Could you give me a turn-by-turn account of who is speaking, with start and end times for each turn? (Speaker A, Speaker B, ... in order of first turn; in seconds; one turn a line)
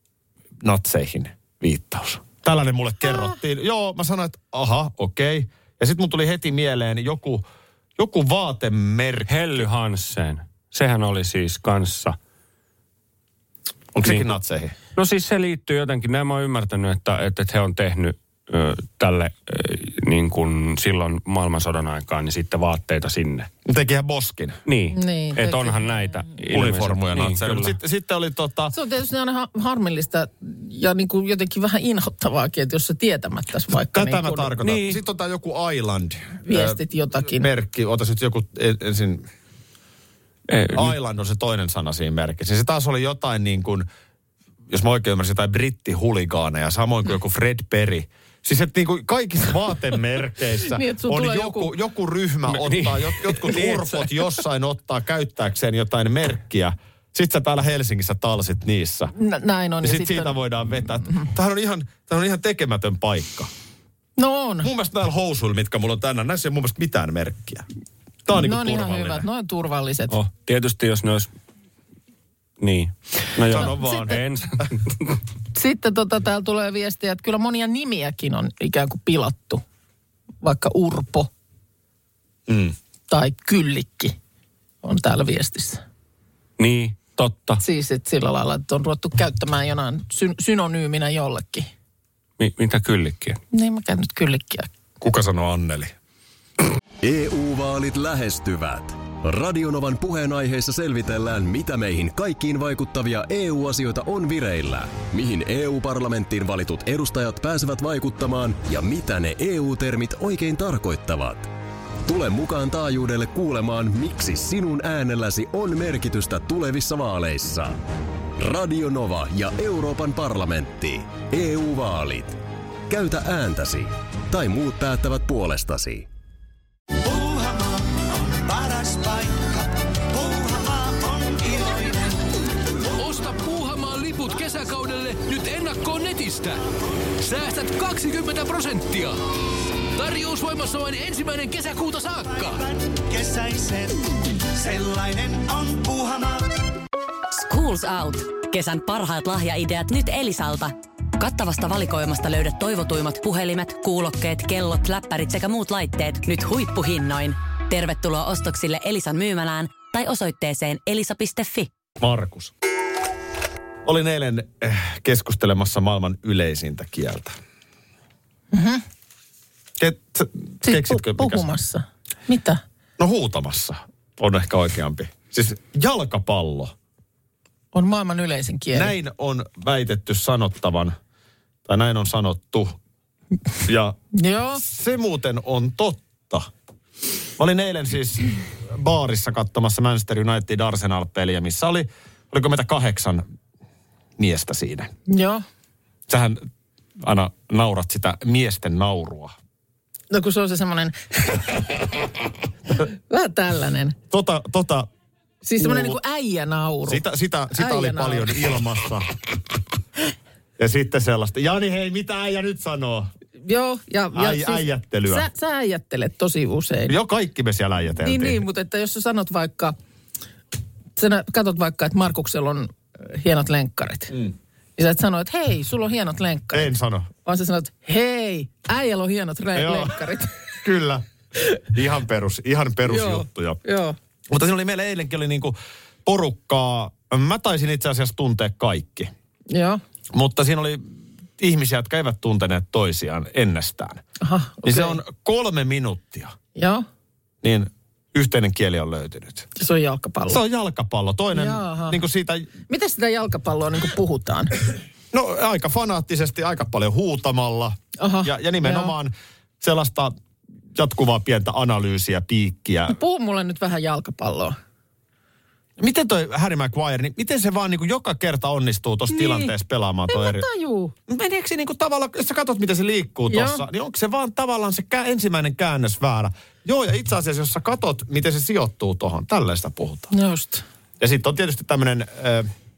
Speaker A: 0.6-7.4
Speaker A: 8.0-9.7
Speaker B: 9.3-12.2
Speaker A: 13.9-14.7
Speaker B: 14.0-14.3
Speaker B: 14.9-23.5
Speaker A: 23.6-24.6
Speaker B: 24.6-27.8
Speaker C: 24.9-26.1
Speaker A: 26.5-28.7
Speaker C: 28.7-34.5
Speaker A: 33.9-39.3
Speaker B: 34.6-35.0
Speaker C: 36.4-37.5
Speaker B: 40.5-40.9
Speaker A: 40.7-43.9
Speaker A: 44.7-59.1
Speaker C: 50.6-51.7
Speaker B: 52.5-54.3
Speaker C: 59.1-60.4
Speaker A: 59.8-63.5
Speaker C: 64.2-64.7
Speaker A: 64.6-67.7
Speaker A: 68.2-69.2
Speaker C: 68.3-70.2
Speaker B: 70.1-71.3
Speaker B: 72.6-75.2
Speaker A: 73.4-74.6
Speaker C: 73.5-74.0
Speaker C: 75.5-79.6
Speaker C: 80.4-81.3
Speaker A: 82.5-82.8
Speaker C: 83.1-84.2
Speaker C: 84.8-85.8
Speaker B: 86.6-87.6
Speaker C: 87.6-91.7
Speaker B: 92.4-93.4
Speaker C: 93.5-94.7
Speaker A: 95.0-95.9
Speaker D: 97.0-111.5
Speaker D: 112.0-117.8
Speaker D: 118.4-126.1
Speaker E: 127.0-132.3
Speaker F: 132.9-136.6
Speaker F: 137.2-139.2
Speaker F: 139.9-142.6
Speaker E: 142.4-146.5
Speaker G: 147.3-161.7
Speaker A: 162.0-162.5
Speaker A: 163.8-167.3
Speaker C: 168.5-168.8
Speaker A: 169.8-171.5
Speaker C: 170.6-172.6
Speaker A: 173.0-176.7
Speaker C: 177.7-178.9
Speaker A: 178.7-180.9
Speaker A: 181.7-182.8
Speaker A: 183.7-184.0
Speaker C: 184.1-184.6
Speaker A: 184.6-186.5
Speaker A: 187.4-193.2
Speaker A: 194.2-194.9
Speaker C: 195.1-195.4
Speaker A: 196.1-196.4
Speaker A: 197.0-199.3
Speaker C: 200.1-201.8
Speaker C: 202.7-204.0
Speaker A: 204.1-204.9
Speaker C: 205.4-208.3
Speaker A: 205.6-206.0
Speaker A: 206.8-209.1
Speaker A: 210.6-213.1
Speaker C: 213.4-216.9
Speaker A: 214.1-215.3
Speaker A: 216.9-218.4
Speaker C: 218.0-219.7
Speaker C: 220.9-224.2
Speaker C: 224.8-226.7
Speaker A: 226.5-227.1
Speaker C: 227.2-230.3
Speaker A: 229.5-231.0
Speaker A: 231.6-233.6
Speaker C: 232.8-233.9
Speaker A: 234.3-239.1
Speaker C: 239.5-239.8
Speaker A: 240.1-240.9
Speaker A: 241.4-244.0
Speaker C: 244.2-245.0
Speaker A: 244.6-246.3
Speaker C: 246.5-246.8
Speaker A: 247.4-249.5
Speaker C: 249.6-250.4
Speaker A: 250.3-252.5
Speaker C: 251.3-252.0
Speaker C: 252.7-254.5
Speaker A: 255.1-260.1
Speaker C: 258.0-258.9
Speaker A: 260.7-262.9
Speaker C: 262.9-264.6
Speaker A: 265.8-270.5
Speaker C: 269.1-269.5
Speaker C: 270.1-270.9
Speaker A: 271.1-280.1
Speaker C: 273.3-273.6
Speaker C: 280.1-280.6
Speaker A: 281.0-282.5